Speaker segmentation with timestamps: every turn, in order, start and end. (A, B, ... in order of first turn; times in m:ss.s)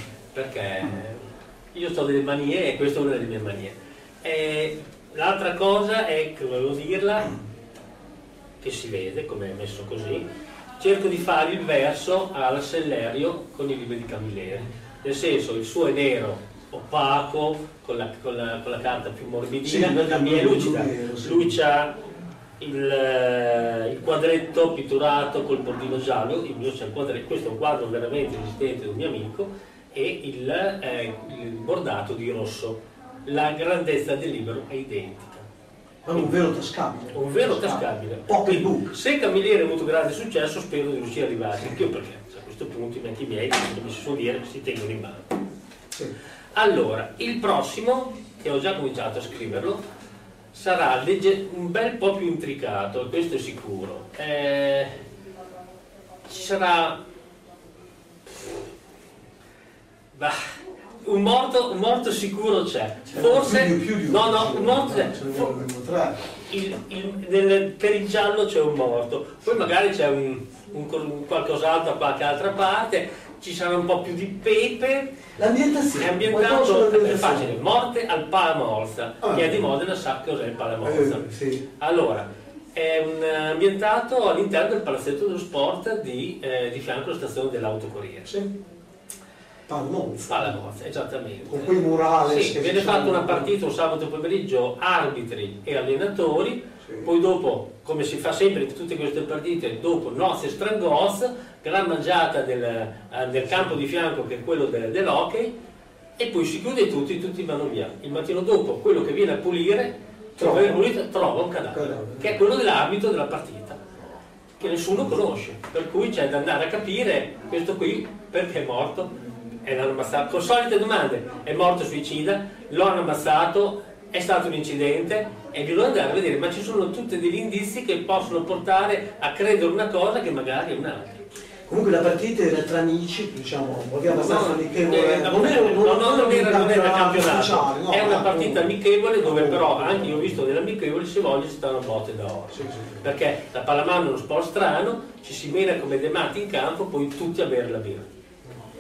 0:00.3-0:07.3 A
0:08.6-0:10.2 A
0:10.8-0:22.0 A
0:19.6-0:21.6 B
0:22.6-0:35.5 A
0:36.0-0:39.0 B
0:37.1-0:45.4 A
0:46.6-0:49.8 A
0:50.5-0:55.0 A
0:56.2-0:57.0 A
1:00.1-1:00.4 A
1:01.0-1:05.5 A
1:03.1-1:06.2 B
1:06.5-1:15.1 A
1:15.4-1:17.6 B
1:16.0-1:28.3 A
1:19.2-1:19.6 B
1:20.8-1:21.6 B
1:28.2-1:28.5 B
1:29.7-1:30.6 B
1:30.3-1:45.5 A
1:31.5-1:33.5 B
1:46.2-1:53.8 A
1:50.4-1:50.9 B
1:51.7-1:52.3 B
1:54.6-1:59.1 A
1:59.6-2:11.2 A
2:11.7-2:18.7 B
2:14.1-2:28.1 A
2:19.2-2:20.3 B
2:22.5-2:23.0 B